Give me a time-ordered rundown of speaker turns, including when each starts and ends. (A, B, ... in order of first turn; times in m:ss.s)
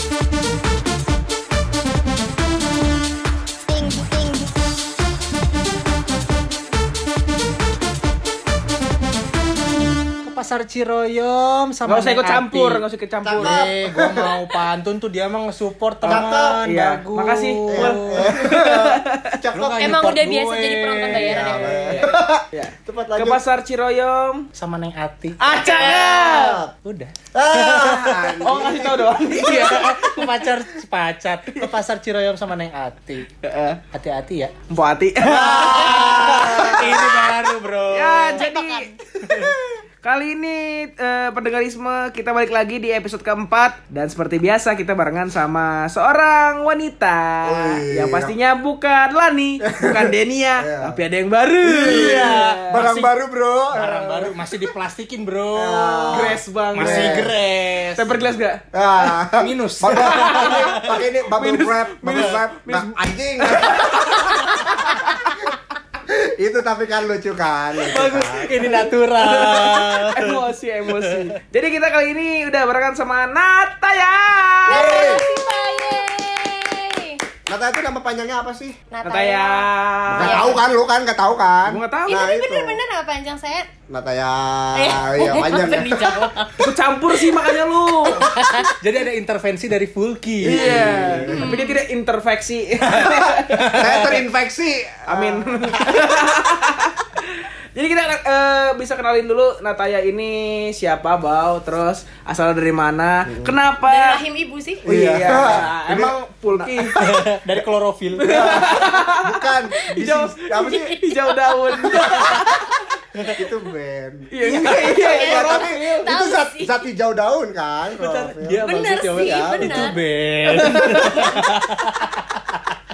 0:10.2-0:12.8 A
0:11.8-0:13.6 B
0:13.2-0:14.3 C
0:13.4-0:18.4 A
0:16.0-0:19.4 B
0:16.1-0:16.6 C
0:17.7-0:19.8 C
0:19.5-0:21.6 A
0:19.8-0:22.0 D
0:21.1-0:23.4 C
0:21.6-0:24.5 B
0:24.5-0:25.6 A
0:25.4-0:26.6 B
0:25.5-0:26.5 D
0:25.6-0:26.7 C
0:26.8-0:28.4 A
0:27.3-0:29.4 C
0:28.4-0:30.5 B
0:29.2-0:33.3 A
0:33.4-0:33.8 B
0:33.9-0:34.5 A
0:34.7-0:37.2 B
0:35.2-0:37.2 C
0:35.3-0:39.5 A
0:37.9-0:38.9 B
0:40.0-0:53.1 B
0:47.4-0:48.3 C
0:49.7-0:51.0 C
0:51.6-0:54.3 C
0:51.8-0:53.1 A
0:53.7-0:58.2 A
0:55.5-0:57.3 C
0:56.1-0:57.3 B
0:58.0-0:58.6 B
0:58.7-1:04.7 C
0:59.4-1:01.0 A
0:59.9-1:05.3 B
1:06.1-1:08.5 C
1:07.8-1:15.2 B
1:08.0-1:11.3 A
1:14.6-1:17.2 D
1:14.7-1:15.2 C
1:17.5-1:18.8 C
1:18.9-1:20.6 D
1:19.0-1:20.6 B
1:20.1-1:22.8 C
1:21.6-1:22.3 B
1:22.1-1:23.7 D
1:23.9-1:26.2 C
1:24.7-1:26.4 D
1:26.2-1:26.5 A
1:26.6-1:28.3 B
1:28.0-1:28.7 D
1:28.2-1:31.0 A
1:30.4-1:34.0 B
1:30.4-1:31.4 C
1:31.3-1:31.8 D
1:33.1-1:34.2 A
1:33.7-1:35.8 C
1:35.1-1:44.2 B
1:43.2-1:43.5 C
1:43.8-1:44.9 D
1:44.8-1:47.0 B
1:44.8-1:47.3 C
1:47.0-1:48.9 A
1:48.2-1:52.8 B
1:48.3-1:50.9 C
1:49.7-1:50.0 D
1:50.5-1:52.6 D
1:53.3-1:59.9 C
1:54.3-1:56.1 B
1:54.4-1:56.9 D
1:57.9-2:02.7 A
1:58.6-2:00.0 D
2:00.5-2:01.4 B